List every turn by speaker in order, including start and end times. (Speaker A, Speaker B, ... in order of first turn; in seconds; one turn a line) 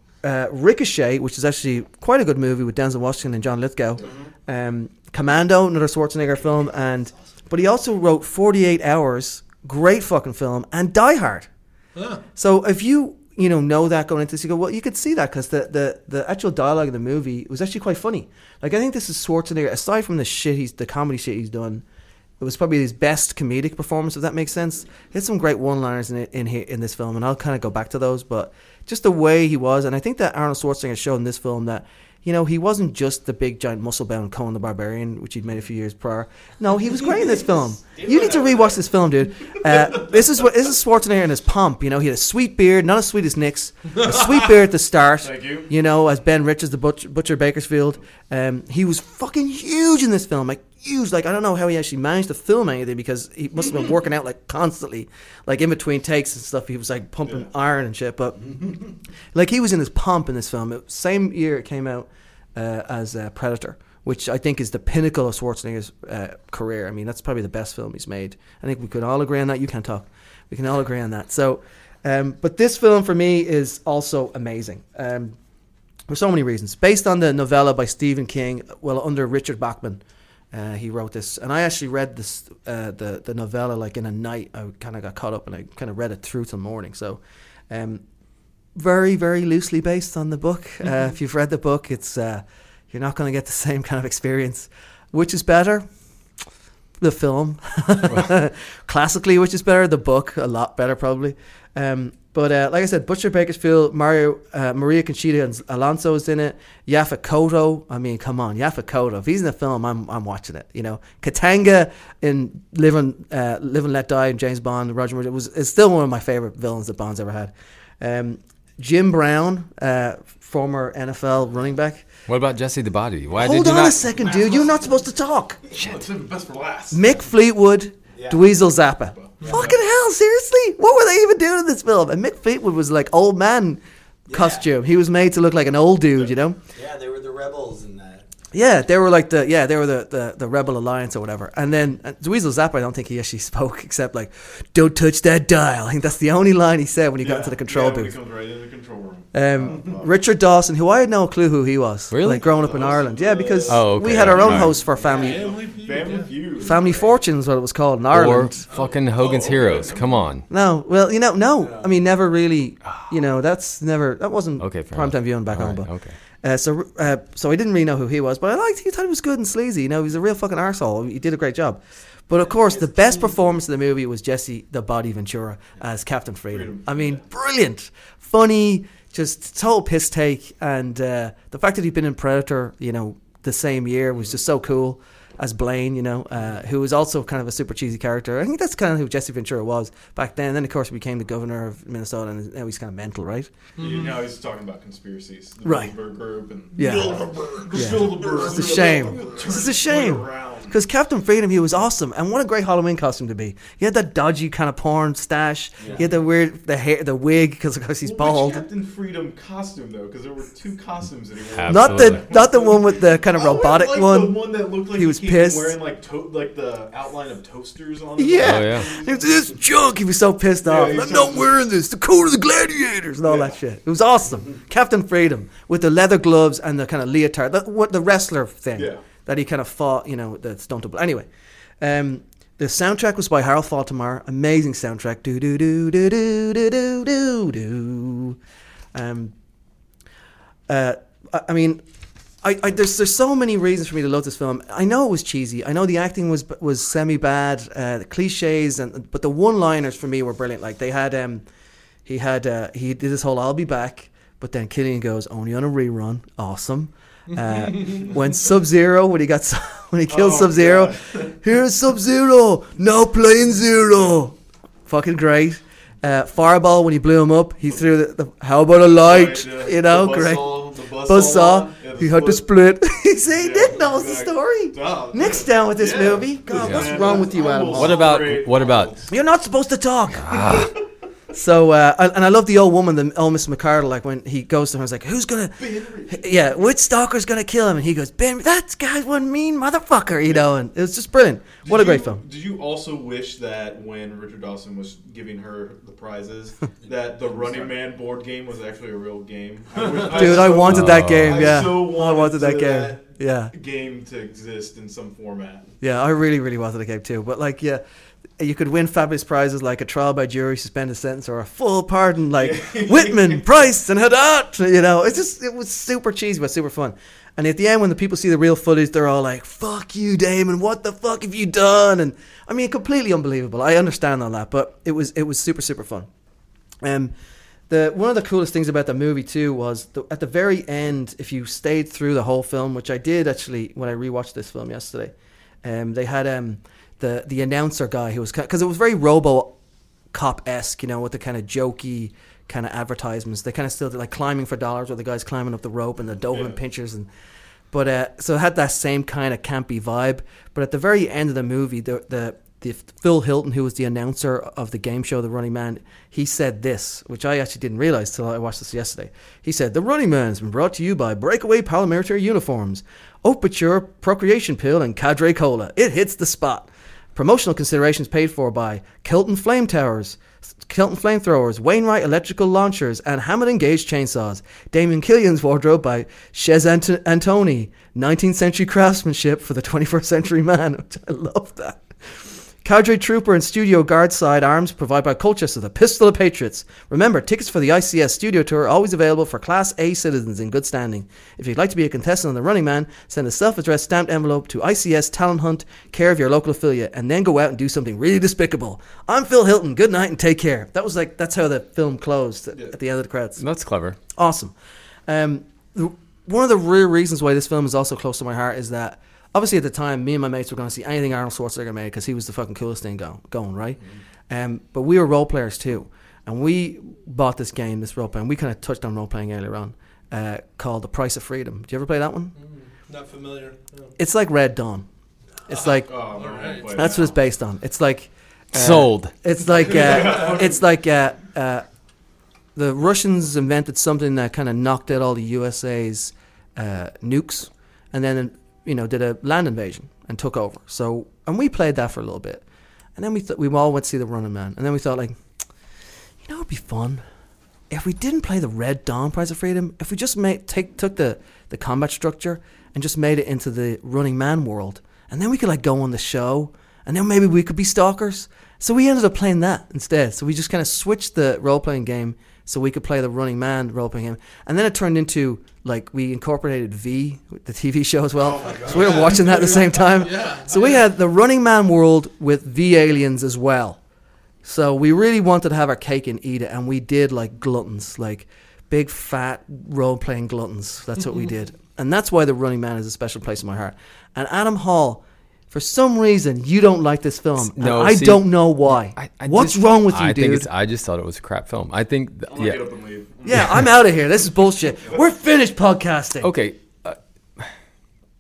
Speaker A: 0.2-11.5
Speaker B: 4.0-4.3
Speaker C: 11.9-12.2
Speaker A: 12.3-21.8
Speaker A: 22.4-75.3
Speaker B: 37.3-38.8
Speaker D: 45.2-45.7
Speaker A: 76.1-80.0
Speaker A: 80.5-88.0
Speaker A: 88.7-95.9
Speaker A: 97.0-122.0
Speaker E: 122.3-124.1
Speaker A: 123.4-125.6
Speaker B: 124.1-124.9
Speaker D: 125.7-127.2
Speaker A: 126.9-136.6
Speaker B: 128.1-128.5
Speaker D: 129.2-129.7
Speaker C: 129.4-129.7
Speaker B: 129.4-129.7
Speaker B: 134.3-134.7
Speaker B: 136.7-138.2
Speaker A: 138.5-148.2
Speaker D: 147.2-150.1
Speaker A: 149.3-155.4
Speaker E: 152.1-152.4
Speaker D: 152.4-157.1
Speaker E: 153.7-154.8
Speaker B: 154.9-155.4
Speaker C: 155.0-156.4
Speaker A: 156.6-158.6
Speaker E: 158.1-160.4
Speaker D: 158.7-160.3
Speaker A: 160.5-165.9
Speaker B: 161.6-161.9
Speaker E: 164.6-166.2
Speaker A: 166.4-193.5
Speaker D: 172.7-173.3
Speaker D: 176.5-177.2
Speaker C: 193.8-194.1
Speaker D: 193.8-200.8
Speaker A: 195.6-195.9
Speaker A: 196.8-208.7
Speaker C: 196.8-198.5
Speaker B: 198.8-199.2
Speaker D: 208.0-219.4
Speaker E: 211.5-212.2
Speaker A: 211.7-215.8
Speaker A: 218.2-231.3
Speaker E: 218.4-218.9
Speaker D: 220.6-221.5
Speaker D: 223.2-223.6
Speaker D: 228.7-229.0
Speaker A: 231.8-238.4
Speaker A: 238.9-239.3
Speaker A: 240.7-241.8
Speaker A: 242.4-251.4
Speaker A: 252.1-264.4
Speaker D: 260.1-261.3
Speaker A: 264.9-278.2
Speaker D: 268.9-272.4
Speaker D: 273.3-279.1
Speaker E: 276.6-276.9
Speaker E: 277.7-278.9
Speaker A: 279.1-280.7
Speaker E: 280.2-280.7
Speaker D: 280.4-280.7
Speaker A: 281.3-292.2
Speaker D: 285.6-286.3
Speaker D: 291.6-305.7
Speaker B: 297.0-297.7
Speaker B: 299.7-300.7
Speaker A: 300.0-303.5
Speaker E: 300.7-301.5
Speaker A: 305.8-307.8
Speaker A: 308.4-326.1
Speaker D: 312.3-313.5
Speaker A: 326.8-327.1
Speaker A: 327.7-335.1
Speaker A: 335.6-339.6
Speaker A: 340.1-347.1
Speaker D: 346.3-346.6
Speaker A: 347.7-381.8
Speaker A: 382.6-403.4
Speaker E: 403.4-404.0
Speaker A: 404.1-404.5
Speaker A: 405.1-422.3
Speaker C: 422.8-423.9
Speaker A: 424.0-424.9
Speaker A: 425.5-426.1
Speaker C: 425.5-426.9
Speaker D: 425.8-427.2
Speaker A: 426.7-431.6
Speaker E: 428.5-429.1
Speaker D: 429.6-430.6
Speaker A: 432.6-442.4
Speaker A: 442.9-445.2
Speaker A: 446.2-447.0
Speaker A: 447.7-473.8
Speaker D: 468.2-469.7
Speaker B: 468.3-469.6
Speaker C: 469.9-470.8
Speaker A: 474.4-490.5
Speaker E: 487.4-492.6
Speaker D: 492.3-493.6
Speaker A: 493.2-496.3
Speaker E: 496.2-497.5